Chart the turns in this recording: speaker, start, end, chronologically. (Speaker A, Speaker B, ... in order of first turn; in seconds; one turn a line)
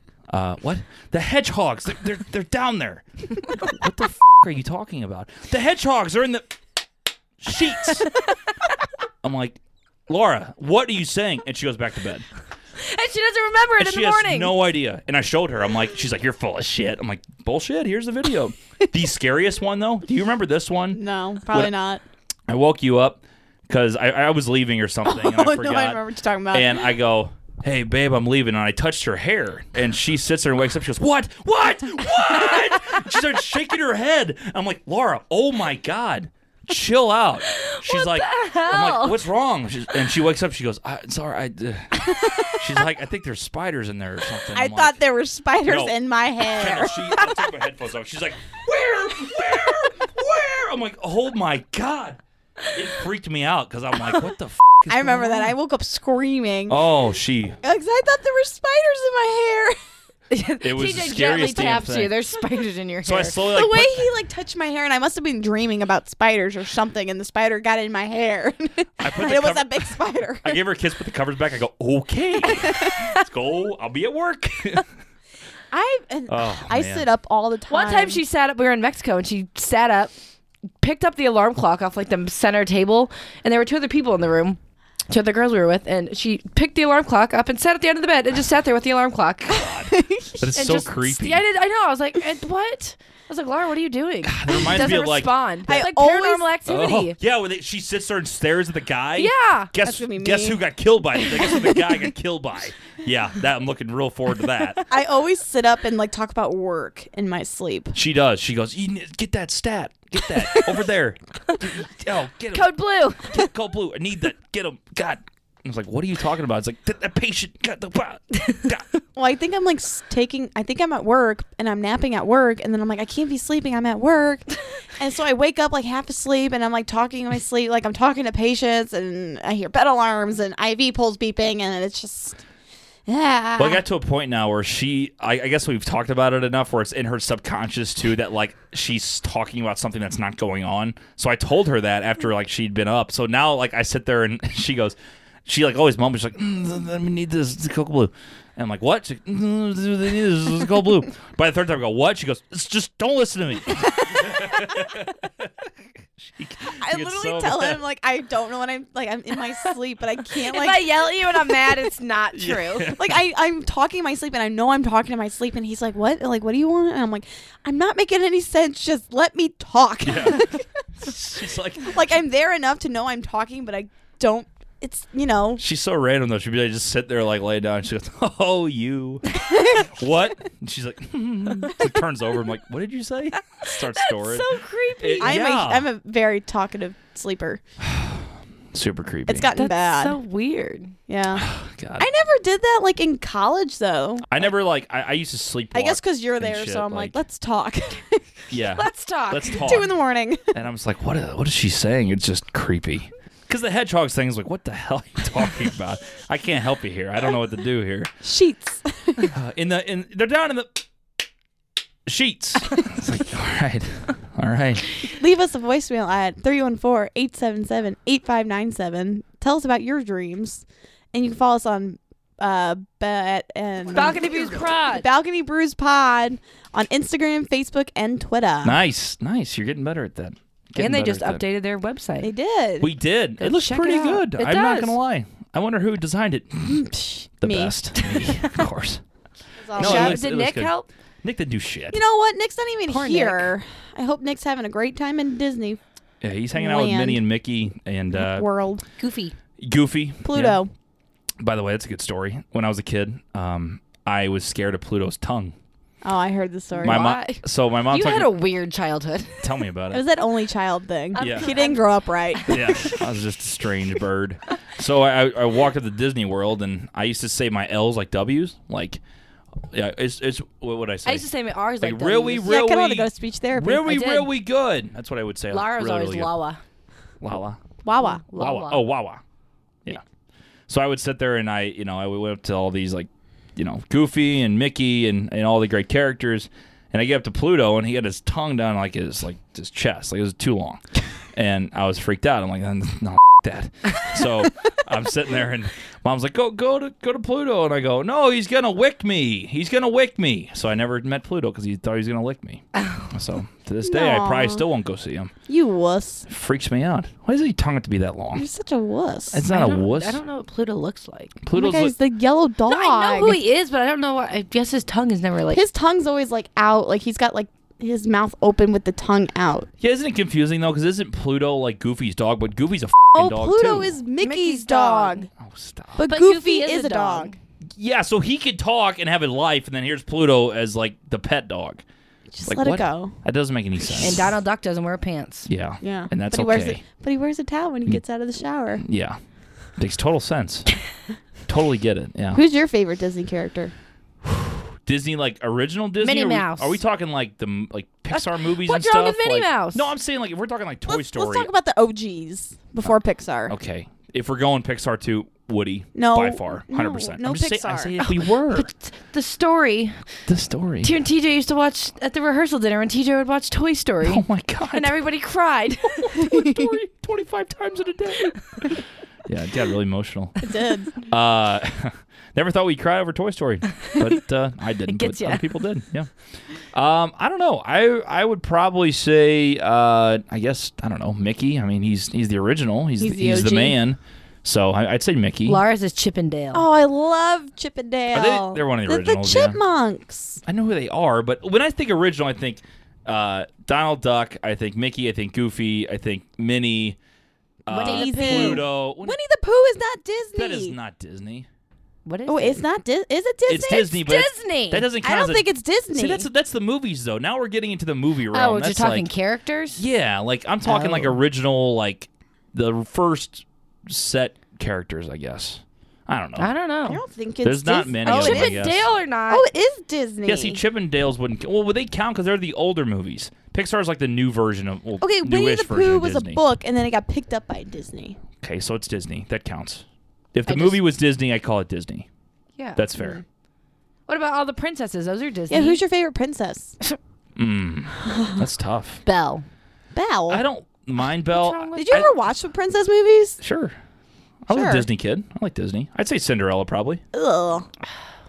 Speaker A: 0.3-6.6
Speaker A: 7.4-8.1
Speaker A: 9.2-12.3
Speaker B: 12.8-14.6
Speaker A: 13.8-21.7
Speaker C: 20.9-22.0
Speaker A: 22.5-26.0
Speaker C: 25.1-26.9
Speaker A: 26.5-45.0
Speaker B: 37.5-39.2
Speaker C: 42.1-42.6
Speaker C: 44.5-47.3
Speaker A: 45.7-52.2
Speaker A: 52.7-55.5
Speaker C: 54.9-56.8
Speaker A: 56.7-57.6
Speaker C: 57.6-59.8
Speaker B: 60.3-63.4
Speaker A: 60.6-62.1
Speaker A: 63.0-64.1
Speaker C: 63.5-70.6
Speaker A: 69.0-74.9
Speaker C: 72.5-73.0
Speaker C: 75.7-78.2
Speaker A: 76.3-77.1
Speaker B: 77.7-80.1
Speaker B: 80.8-89.7
Speaker A: 89.5-91.4
Speaker C: 89.8-90.4
Speaker B: 90.5-97.2
Speaker A: 94.2-95.3
Speaker C: 95.7-96.5
Speaker A: 96.7-104.9
Speaker B: 99.2-99.7
Speaker C: 99.8-100.6
Speaker C: 104.9-108.0
Speaker A: 107.9-118.9
Speaker B: 112.5-113.4
Speaker C: 119.2-132.4
Speaker C: 133.1-133.8
Speaker A: 133.6-157.8
Speaker C: 153.9-154.9
Speaker C: 156.7-161.8
Speaker B: 160.3-162.9
Speaker A: 162.3-163.2
Speaker C: 162.9-170.7
Speaker A: 170.0-172.0
Speaker C: 171.8-175.6
Speaker A: 175.6-185.9
Speaker C: 179.3-179.9
Speaker B: 183.6-185.4
Speaker C: 185.2-187.6
Speaker A: 187.8-189.5
Speaker C: 189.3-190.2
Speaker B: 189.6-191.0
Speaker C: 191.1-194.3
Speaker A: 191.4-192.1
Speaker A: 194.3-197.2
Speaker C: 195.7-198.3
Speaker A: 198.5-199.9
Speaker B: 198.8-199.7
Speaker C: 199.5-200.5
Speaker A: 200.5-208.1
Speaker C: 208.2-209.3
Speaker A: 209.3-210.8
Speaker A: 212.1-214.9
Speaker C: 215.1-228.8
Speaker B: 223.9-225.1
Speaker A: 228.6-231.4
Speaker B: 230.8-232.3
Speaker C: 232.2-232.9
Speaker A: 232.8-236.8
Speaker B: 233.4-235.0
Speaker C: 236.7-237.8
Speaker A: 237.4-239.0
Speaker B: 238.1-238.6
Speaker C: 239.6-240.2
Speaker B: 239.8-240.9
Speaker A: 239.8-242.0
Speaker C: 241.9-245.8
Speaker B: 242.9-243.5
Speaker A: 246.2-248.5
Speaker C: 246.6-247.2
Speaker C: 248.1-248.8
Speaker B: 249.0-249.3
Speaker A: 249.6-250.6
Speaker C: 250.2-250.7
Speaker A: 251.4-255.5
Speaker C: 256.0-257.1
Speaker B: 256.7-259.5
Speaker A: 256.8-258.3
Speaker A: 259.4-260.0
Speaker C: 259.9-262.9
Speaker B: 261.1-263.1
Speaker A: 261.2-261.5
Speaker A: 262.5-269.0
Speaker A: 269.7-271.3
Speaker B: 271.1-272.6
Speaker A: 271.8-276.3
Speaker C: 272.4-274.0
Speaker B: 273.9-274.3
Speaker B: 275.5-276.6
Speaker A: 277.2-277.6
Speaker C: 277.9-278.2
Speaker B: 278.0-278.8
Speaker A: 278.3-279.2
Speaker A: 280.7-305.3
Speaker B: 302.8-303.1
Speaker C: 303.8-304.6
Speaker C: 305.5-306.3
Speaker A: 306.3-308.4
Speaker C: 308.4-309.4
Speaker A: 309.3-310.2
Speaker B: 309.5-311.4
Speaker A: 311.4-311.9
Speaker C: 311.5-313.4
Speaker B: 312.7-315.6
Speaker C: 315.5-319.7
Speaker A: 319.8-324.0
Speaker C: 323.1-325.3
Speaker B: 324.2-325.3
Speaker A: 325.4-326.0
Speaker C: 326.0-327.3
Speaker B: 326.1-327.4
Speaker A: 327.8-331.8
Speaker C: 332.3-333.2
Speaker A: 332.4-334.4
Speaker B: 334.0-335.5
Speaker A: 335.5-336.8
Speaker C: 335.8-338.8
Speaker A: 338.8-339.2
Speaker A: 339.8-340.7
Speaker A: 341.5-342.4
Speaker C: 342.3-343.7
Speaker A: 344.2-351.5
Speaker B: 346.0-346.8
Speaker B: 348.1-349.9
Speaker C: 350.9-353.5
Speaker A: 353.5-358.7
Speaker C: 355.9-358.0
Speaker B: 358.0-360.0
Speaker A: 360.3-361.0
Speaker B: 360.8-366.3
Speaker A: 364.0-364.9
Speaker A: 365.9-370.4
Speaker C: 366.2-366.6
Speaker C: 370.4-370.9
Speaker A: 371.0-376.1
Speaker B: 374.9-375.5
Speaker A: 376.7-385.6
Speaker C: 383.0-383.8
Speaker B: 385.5-386.7
Speaker C: 386.5-390.4
Speaker A: 388.1-389.6
Speaker A: 390.4-397.0
Speaker A: 397.7-399.2
Speaker B: 397.7-398.7
Speaker C: 397.8-400.8
Speaker A: 400.4-401.5
Speaker B: 402.1-402.6
Speaker C: 402.3-404.1
Speaker A: 403.5-409.1
Speaker B: 403.7-404.9
Speaker C: 405.0-406.3
Speaker B: 408.3-409.8
Speaker A: 409.8-416.5
Speaker B: 410.6-411.2
Speaker B: 416.4-417.0
Speaker C: 416.9-418.6
Speaker A: 417.4-418.9
Speaker B: 418.1-419.5
Speaker C: 419.3-420.6
Speaker A: 420.3-426.4
Speaker C: 425.0-428.2
Speaker A: 428.4-432.1
Speaker B: 430.5-430.8
Speaker B: 432.6-432.9
Speaker A: 432.8-433.2
Speaker C: 433.0-433.2
Speaker B: 434.1-435.8
Speaker C: 435.5-436.8
Speaker A: 437.4-439.0
Speaker C: 438.0-438.4
Speaker B: 439.1-439.4
Speaker C: 439.9-440.4
Speaker A: 440.3-442.1
Speaker B: 441.3-442.1
Speaker C: 441.8-443.4
Speaker A: 443.4-443.8
Speaker A: 444.5-447.0
Speaker C: 444.5-444.9
Speaker C: 447.1-447.7